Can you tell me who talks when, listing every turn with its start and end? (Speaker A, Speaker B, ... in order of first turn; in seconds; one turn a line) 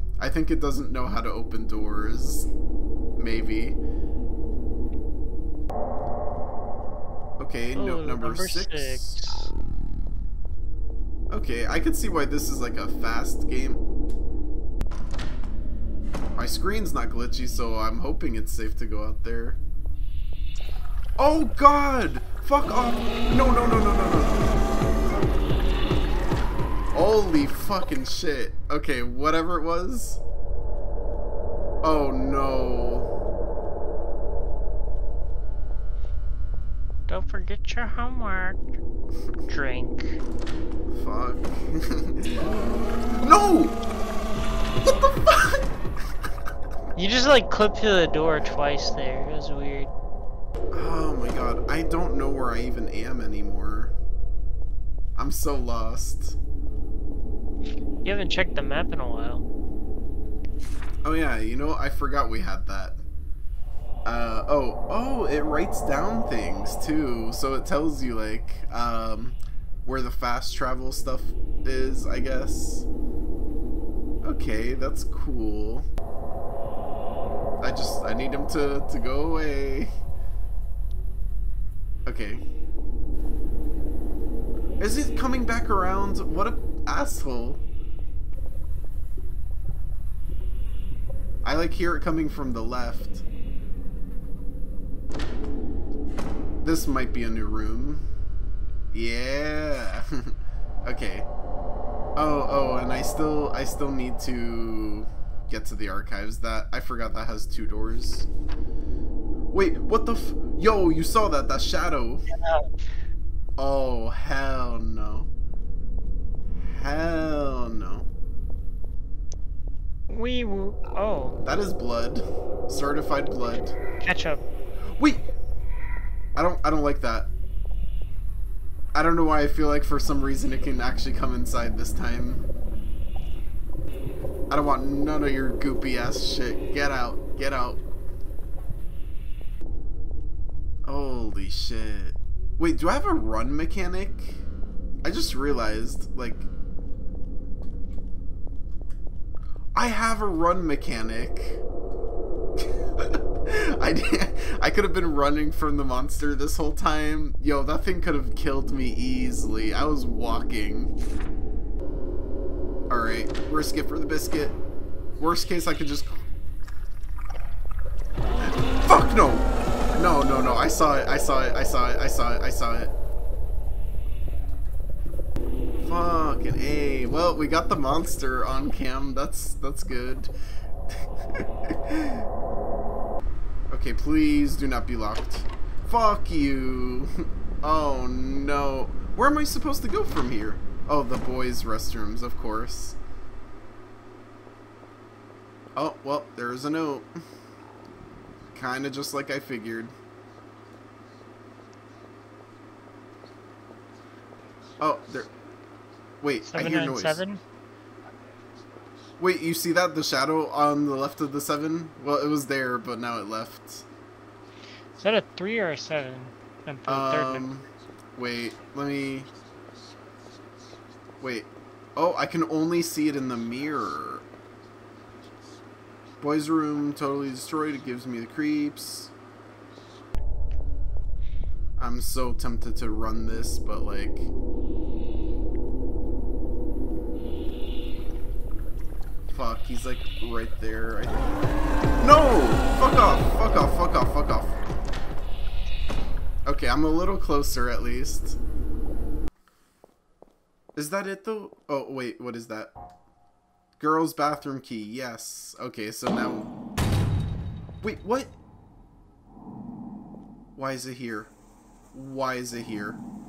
Speaker A: 0.2-2.5
Speaker A: 3.2-3.8
Speaker A: 7.4-9.2
Speaker B: 7.8-9.5
Speaker A: 11.3-13.8
Speaker A: 16.4-19.6
Speaker A: 21.2-25.3
Speaker A: 26.9-30.2
Speaker A: 31.8-33.1
Speaker B: 37.1-38.6
Speaker B: 39.5-40.2
Speaker A: 40.9-43.8
Speaker A: 44.8-45.7
Speaker B: 46.9-49.9
Speaker A: 50.7-53.9
Speaker A: 55.1-56.4
Speaker B: 58.0-59.4
Speaker A: 61.0-63.0
Speaker A: 64.0-72.9
Speaker A: 74.2-75.8
Speaker A: 77.6-79.9
Speaker A: 82.0-82.4
Speaker A: 84.8-87.6
Speaker A: 91.4-93.2
Speaker A: 96.6-98.1
Speaker A: 98.9-101.3
Speaker A: 102.2-108.3
Speaker A: 109.5-112.2
Speaker B: 112.3-112.7
Speaker A: 113.6-115.3
Speaker A: 116.6-118.1
Speaker B: 120.1-121.4
Speaker A: 121.4-123.7
Speaker B: 124.0-124.4
Speaker A: 125.0-125.3
Speaker A: 126.3-127.3
Speaker A: 128.9-132.4
Speaker A: 134.5-137.8
Speaker A: 140.8-144.4
Speaker A: 145.0-146.5
Speaker A: 149.7-151.6
Speaker A: 153.0-160.9
Speaker A: 162.9-164.6
Speaker A: 165.2-166.3
Speaker A: 168.4-172.9
Speaker A: 175.8-180.3
Speaker A: 181.3-182.2
Speaker A: 183.7-187.1
Speaker A: 187.6-193.0
Speaker A: 195.8-197.1
Speaker A: 198.5-199.9
Speaker A: 204.8-205.3
Speaker A: 206.2-207.2
Speaker B: 206.5-207.4
Speaker A: 209.2-213.8
Speaker B: 214.9-217.5
Speaker A: 216.9-219.3
Speaker A: 221.2-224.2
Speaker A: 226.2-229.1
Speaker A: 231.8-234.3
Speaker A: 239.3-241.3
Speaker A: 242.0-244.6
Speaker A: 246.4-248.4
Speaker A: 250.8-252.7
Speaker A: 253.8-256.5
Speaker A: 257.8-258.4
Speaker A: 260.6-261.3
Speaker A: 261.9-263.0